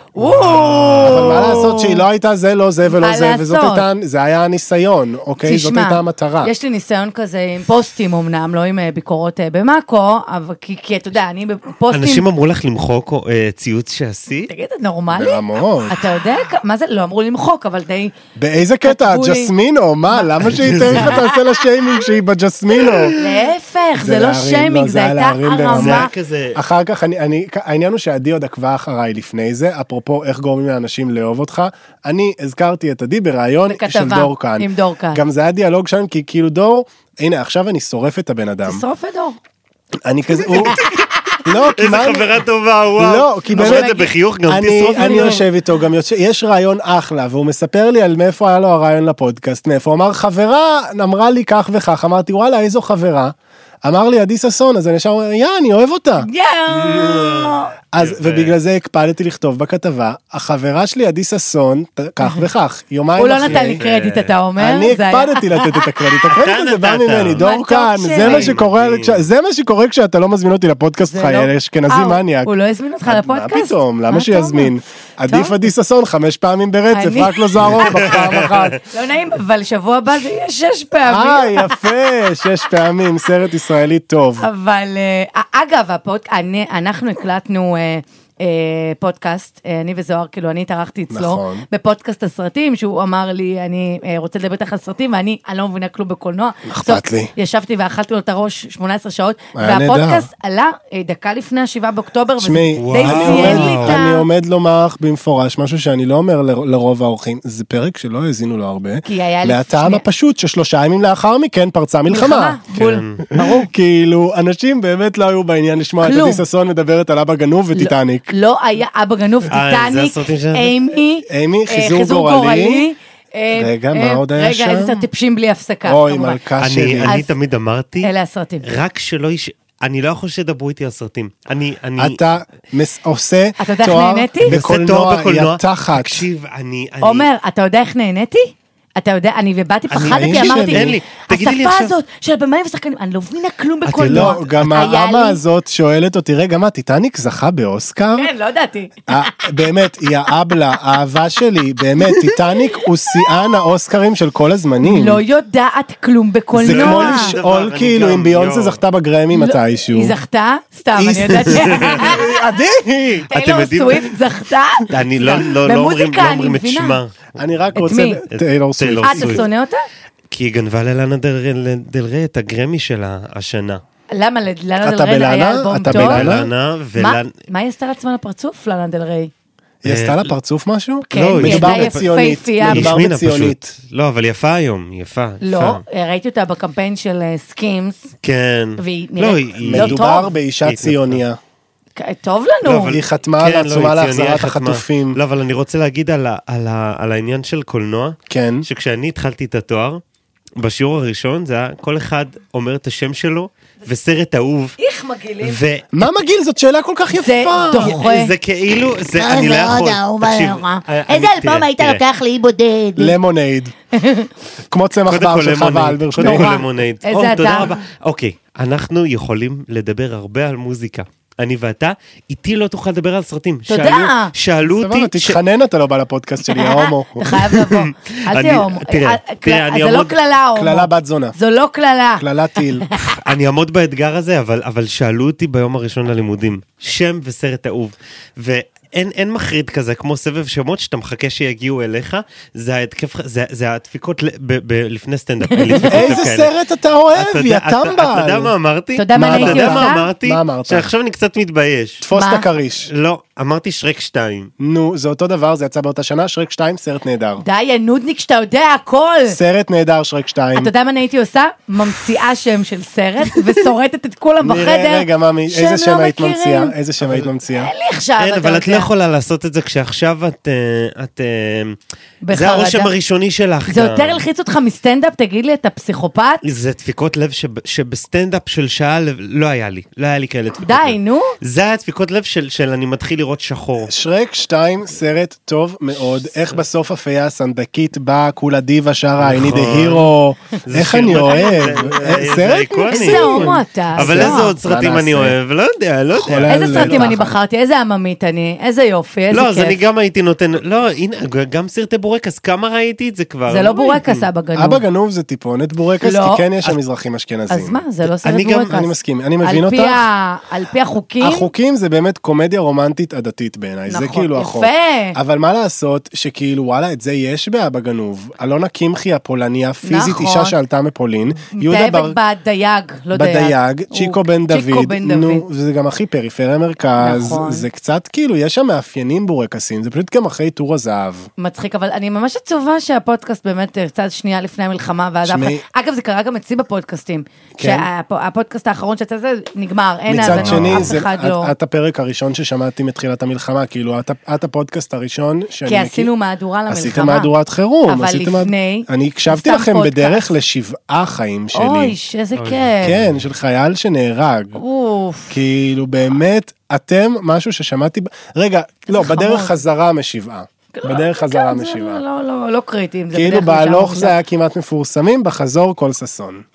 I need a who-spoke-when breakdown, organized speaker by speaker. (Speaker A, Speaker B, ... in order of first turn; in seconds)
Speaker A: 0.1-2.0, 3.0-3.9, 5.4-12.2, 14.5-18.1, 18.8-19.5, 20.1-21.4, 23.1-26.1, 33.7-35.2, 38.6-39.4, 40.4-41.4, 43.5-44.1, 56.2-57.7, 63.1-65.9, 67.4-68.5, 71.0-74.7, 75.3-75.6, 76.9-81.9, 84.4-104.2, 109.0-110.0, 112.1-113.7, 116.0-116.4, 117.7-126.4, 127.0-127.3, 128.0-128.7, 133.6-134.5, 137.0-145.4, 148.2-149.5, 154.8-157.3, 159.3-162.3, 163.3-167.0, 167.8-168.2, 169.0-169.8, 174.1-176.3, 177.0-179.3, 181.1-183.0, 185.4-188.1, 188.8-190.3, 191.9-193.0, 204.8-205.6, 207.2-208.3, 210.3-212.0, 213.9-214.3, 216.2-217.8, 223.7-224.3, 226.5-232.2, 245.5-246.2, 248.9-250.0, 252.1-252.4, 257.4-259.4, 260.5-266.7, 267.5-268.9, 272.2-272.9, 273.7-276.4, 280.6-281.4, 292.9-294.5, 296.5-299.8, 303.5-304.8, 306.0-306.4, 307.5-311.5, 313.9-315.2, 319.8-320.6, 321.5-325.4, 327.0-327.7, 331.4-341.5, 345.6-347.3, 347.9-350.3, 351.5-352.9, 354.6-355.4, 358.9-359.6, 360.7-364.1
Speaker B: 0.2-1.5, 11.9-14.5, 20.4-21.2, 22.9-23.3, 25.7-26.6, 41.8-45.4, 56.8-58.5, 63.4-64.3, 66.3-67.4, 68.2-69.2, 77.7-78.7, 102.8-104.0, 112.7-113.2, 119.5-120.7, 126.6-128.1, 128.6-132.2, 134.4-137.3, 139.9-141.9, 143.8-144.8, 156.6-158.8, 161.3-162.2, 163.3-164.1, 164.9-167.7, 168.3-169.4, 170.3-173.8, 175.9-177.3, 179.8-180.3, 181.1-182.1, 182.6-185.8, 188.2-190.0, 190.6-191.2, 192.7-200.0, 200.6-204.8, 205.4-206.1, 207.6-212.0, 215.0-225.4, 227.4-230.1, 233.1-246.5, 247.1-252.1, 252.9-254.5, 267.0-267.3, 268.2-271.8, 272.3-274.2, 276.4-283.9, 289.2-290.1, 290.6-297.1, 299.3-304.2, 308.0-308.8, 340.2-340.9, 352.4-353.2
Speaker C: 1.0-6.5, 15.1-16.0, 18.4-23.1, 24.0-38.8, 40.0-40.8, 41.4-42.4, 43.0-43.9, 44.5-56.3, 57.9-63.8, 64.6-72.5, 73.0-78.8, 81.0-84.5, 91.1-91.6, 96.7-97.3, 99.5-100.3, 102.4-112.6, 113.2-118.3, 121.3-122.8, 123.5-125.0, 125.8-127.1, 132.0-136.3, 140.0-140.9, 144.0-148.3, 149.1-155.2, 156.5-160.1, 161.0-163.3, 167.4-169.4, 174.8-176.5, 179.8-183.7, 189.6-191.4, 192.8-195.2, 198.3-198.6, 205.9-208.0, 212.9-213.7, 214.7-216.6, 224.6-227.3, 230.6-231.3, 232.2-232.9, 245.8-248.5, 249.1-250.9, 252.0-252.9, 254.6-257.4, 259.3-260.7, 264.4-267.7, 283.8-295.4, 296.1-297.3, 304.6-307.8, 308.7-310.1, 311.2-322.2, 323.1-331.3, 335.2-335.6, 337.6-337.9, 340.1-346.1, 346.7-351.9, 352.8-354.6, 355.3-362.0, 363.1-366.4
Speaker D: 209.2-210.6, 211.3-213.1